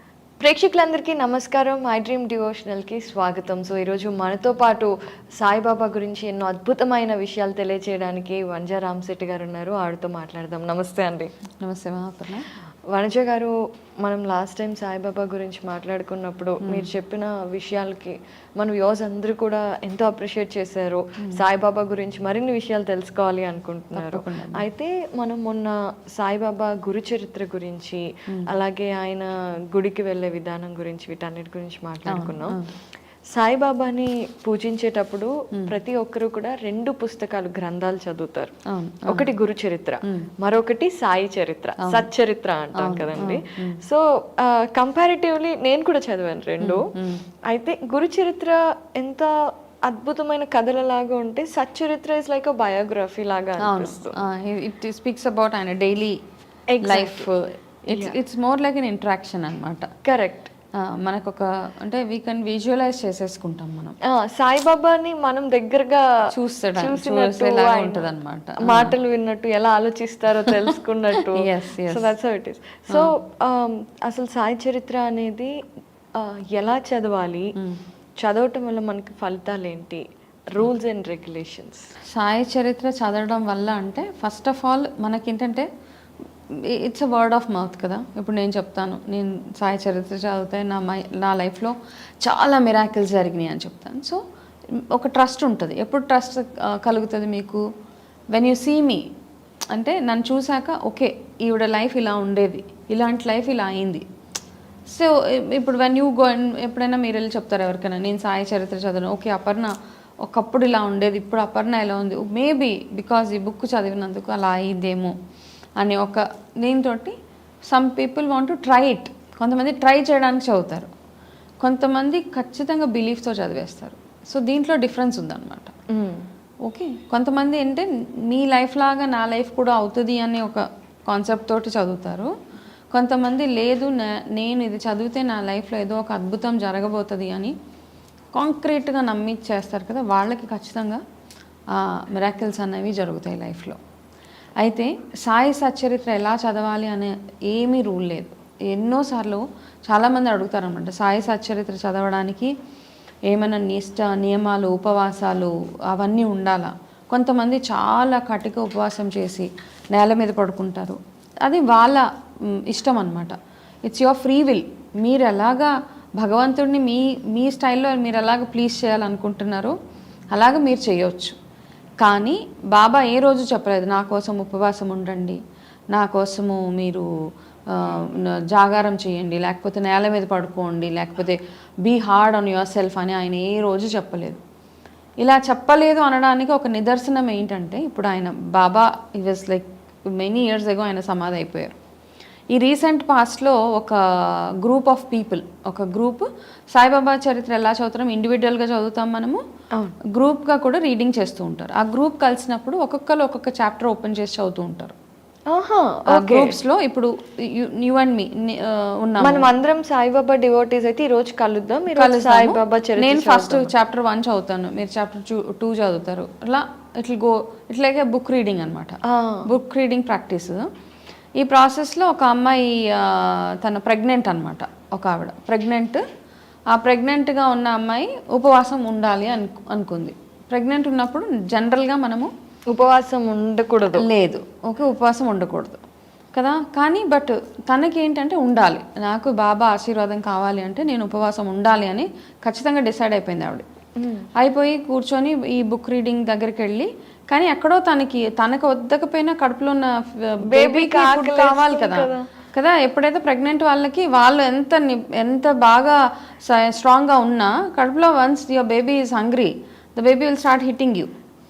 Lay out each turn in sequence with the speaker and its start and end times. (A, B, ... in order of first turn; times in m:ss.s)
0:00.4-0:11.3 A
0:11.6-0:12.5 B
0:12.9-0:32.6 A
0:23.9-0:24.6 B
0:32.1-0:32.6 B
0:33.4-0:38.5 A
0:38.7-0:39.3 B
0:39.1-0:46.9 A
0:42.7-0:43.8 B
0:46.6-0:47.2 B
0:47.5-0:49.3 A
0:49.8-0:54.2 A
0:53.6-0:56.2 B
0:56.7-0:57.3 A
0:56.8-0:59.9 B
0:57.9-0:58.2 A
1:00.0-1:00.5 A
1:00.8-1:03.9 B
1:04.1-1:06.0 A
1:06.3-1:09.0 B
1:06.8-1:08.1 A
1:08.6-1:15.5 A
1:11.3-1:12.1 B
1:16.2-1:17.5 A
1:18.2-1:21.8 A
1:22.1-1:25.7 B
1:26.7-1:34.2 B
1:34.9-1:37.6 B
1:38.3-1:39.0 B
1:39.7-1:44.0 B
1:44.9-1:49.7 B
1:50.2-1:55.1 B
1:55.8-1:57.1 B
1:57.7-2:00.9 B
2:01.6-2:05.7 B
2:05.9-2:06.2 A
2:06.6-2:12.3 B
2:12.9-2:17.5 B
2:18.3-2:21.0 B
2:21.7-2:23.8 B
2:24.6-2:32.5 B
2:33.3-2:42.0 B
2:42.7-2:43.3 B
2:43.8-2:49.7 B
2:50.3-2:51.3 B
2:52.0-2:55.4 B
2:55.9-2:57.0 B
2:57.7-3:04.4 B
3:05.2-3:11.7 B
3:12.5-3:19.4 B
3:20.1-3:24.9 B
3:25.5-3:26.6 A
3:26.1-3:29.5 B
3:29.2-3:33.7 A
3:31.9-3:40.6 B
3:39.0-3:39.4 A
3:41.4-3:46.0 B
3:46.7-3:52.3 B
3:52.7-3:54.1 A
3:53.9-3:55.8 B
3:56.3-4:03.6 B
4:04.0-4:04.3 A
4:04.4-4:21.1 B
4:10.5-4:12.3 A